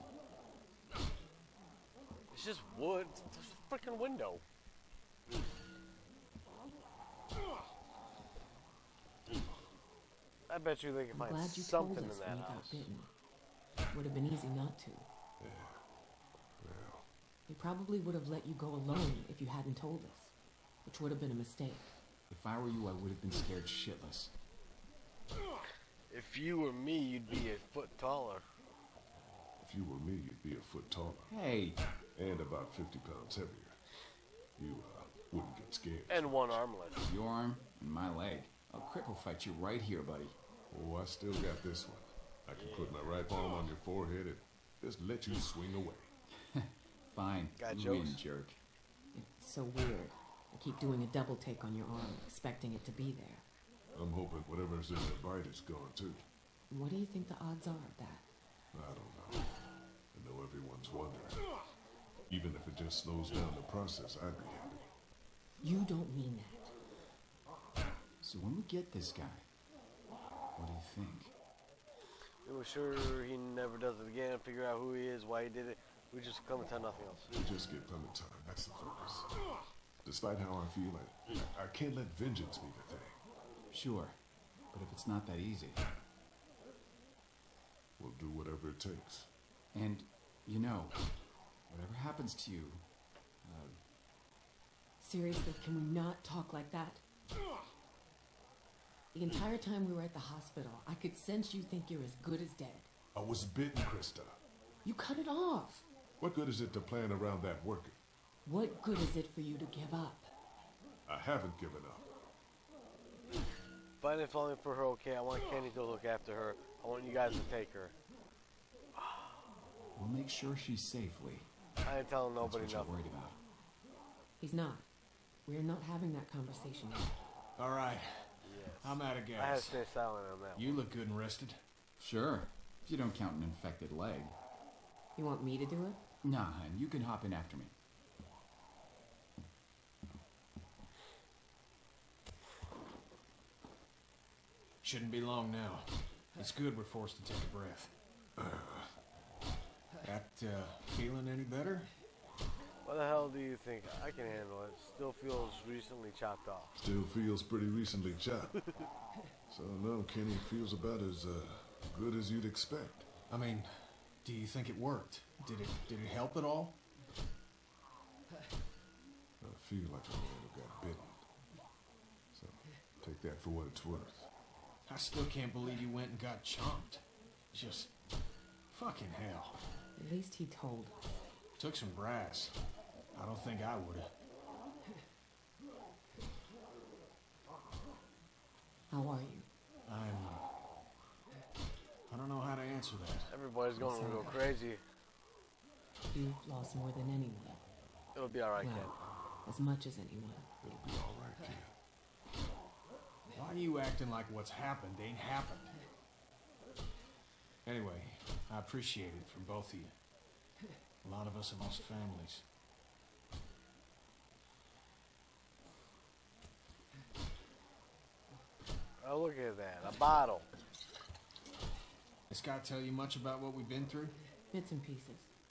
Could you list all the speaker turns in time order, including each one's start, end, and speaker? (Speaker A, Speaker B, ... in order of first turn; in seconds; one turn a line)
Speaker A: 2.3-4.4
Speaker A: 10.5-12.8
Speaker B: 11.1-13.1
Speaker B: 13.9-15.1
Speaker C: 15.4-15.8
Speaker C: 16.6-17.1
Speaker B: 17.5-20.3
Speaker B: 20.8-21.9
Speaker D: 22.3-24.3
Speaker A: 26.1-28.4
Speaker C: 29.6-31.3
Speaker D: 31.3-31.8
Speaker C: 32.1-33.8
Speaker C: 34.6-36.6
Speaker A: 36.1-37.0
Speaker D: 37.0-40.4
Speaker C: 40.7-46.1
Speaker A: 42.5-43.2
Speaker D: 46.3-48.6
Speaker A: 47.6-48.2
Speaker B: 49.1-53.4
Speaker C: 53.9-56.2
Speaker B: 56.7-58.2
Speaker C: 58.7-59.5
Speaker C: 60.1-61.4
Speaker C: 62.3-64.8
Speaker B: 65.6-66.7
Speaker D: 68.2-69.4
Speaker D: 70.5-71.3
Speaker A: 72.4-77.3
Speaker C: 77.3-79.3
Speaker C: 80.0-83.2
Speaker D: 83.7-84.2
Speaker D: 84.7-85.9
Speaker C: 88.0-89.3
Speaker D: 89.7-91.0
Speaker D: 91.7-92.8
Speaker D: 93.4-93.8
Speaker B: 95.0-97.0
Speaker B: 99.1-102.9
Speaker C: 103.1-104.4
Speaker B: 104.8-105.8
Speaker C: 106.2-108.0
Speaker B: 108.4-110.3
Speaker C: 111.1-112.1
Speaker A: 114.0-117.9
Speaker A: 119.0-119.3
Speaker D: 120.0-121.5
Speaker A: 121.8-123.0
Speaker D: 122.4-123.4
Speaker B: 124.4-124.8
Speaker B: 125.5-127.1
Speaker E: 127.6-129.8
Speaker A: 128.4-130.8
Speaker E: 130.6-131.6
Speaker D: 132.0-134.3
Speaker B: 135.2-136.0
Speaker D: 136.2-137.7
Speaker E: 144.8-147.9
Speaker C: 148.4-148.9
Speaker E: 150.0-151.9
Speaker A: 152.8-156.7
Speaker C: 156.8-158.5
Speaker A: 158.6-158.8
Speaker C: 159.5-163.1
Speaker E: 163.3-166.8
Speaker C: 169.4-171.2
Speaker C: 172.3-174.3
Speaker E: 174.9-177.9
Speaker E: 178.7-179.6
Speaker B: 180.0-181.2
Speaker E: 181.6-182.5
Speaker E: 183.1-184.1
Speaker B: 188.9-189.5
Speaker E: 189.9-190.4
Speaker E: 192.1-193.3
Speaker A: 193.3-194.8
Speaker B: 193.8-194.6
Speaker B: 196.1-197.6
Speaker A: 198.1-198.9
Speaker B: 198.6-198.9
Speaker B: 199.4-200.5
Speaker C: 200.6-201.7
Speaker E: 203.3-205.7
Speaker E: 207.6-209.9
Speaker E: 211.0-212.4
Speaker A: 219.0-220.5
Speaker E: 222.3-224.2
Speaker B: 224.5-225.3